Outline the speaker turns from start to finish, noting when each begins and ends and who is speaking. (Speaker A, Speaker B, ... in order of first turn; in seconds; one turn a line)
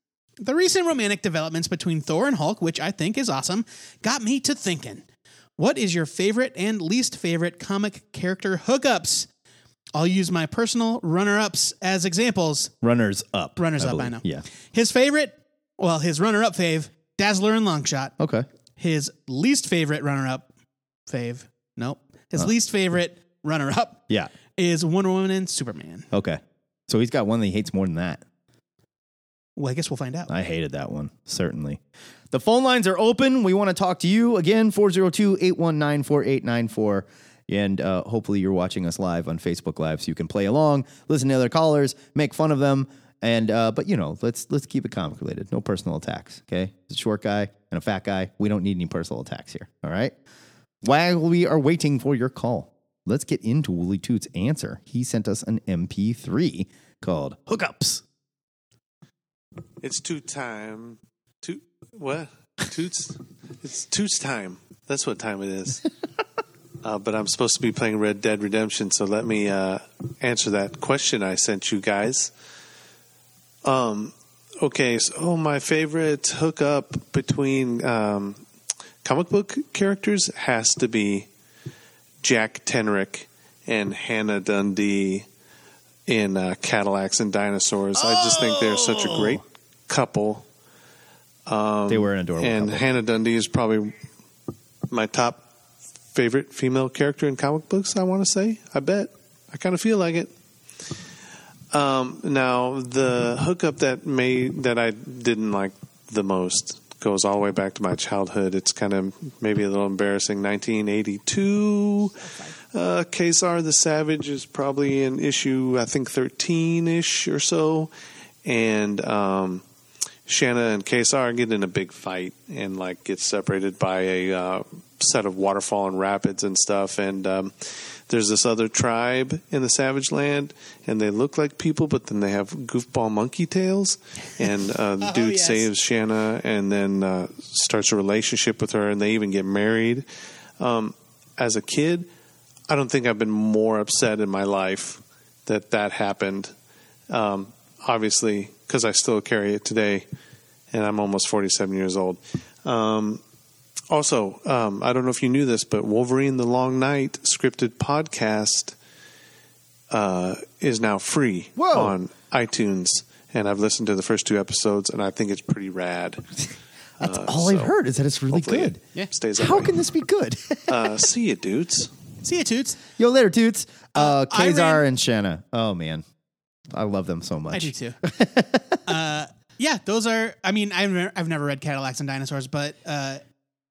Speaker A: 0.4-5.0
Speaker A: 5.6-9.3
Speaker A: 10.0-12.8
Speaker B: 12.8-14.4
Speaker A: 13.6-18.1
Speaker B: 18.2-18.5
Speaker A: 18.8-20.5
Speaker A: 21.1-24.1
Speaker A: 24.6-26.1
Speaker B: 26.1-28.2
Speaker A: 29.6-30.3
Speaker B: 30.3-31.8
Speaker B: 32.3-50.1
Speaker B: 50.8-58.0
Speaker C: 59.8-65.8
Speaker C: 66.8-72.3
Speaker C: 73.6-78.4
Speaker C: 79.0-81.3
Speaker C: 82.2-85.3
Speaker C: 86.1-90.5
Speaker B: 88.0-89.4
Speaker C: 91.5-94.0
Speaker B: 91.9-92.9
Speaker C: 94.9-95.4
Speaker C: 96.1-100.3
Speaker C: 101.7-112.2
Speaker C: 112.7-117.9
Speaker C: 118.5-119.6
Speaker C: 120.3-140.1
Speaker A: 135.0-135.7
Speaker C: 140.6-142.1
Speaker C: 142.7-146.5
Speaker C: 147.1-150.1
Speaker C: 150.7-153.2
Speaker C: 153.9-158.8
Speaker C: 159.9-166.2
Speaker B: 161.6-161.9
Speaker C: 167.0-167.7
Speaker B: 167.0-168.8
Speaker C: 168.3-169.7
Speaker B: 169.3-170.9
Speaker C: 170.7-171.9
Speaker A: 172.2-172.8
Speaker B: 173.0-176.0
Speaker A: 174.0-174.8
Speaker B: 176.7-178.8
Speaker A: 177.5-178.0
Speaker A: 178.9-183.2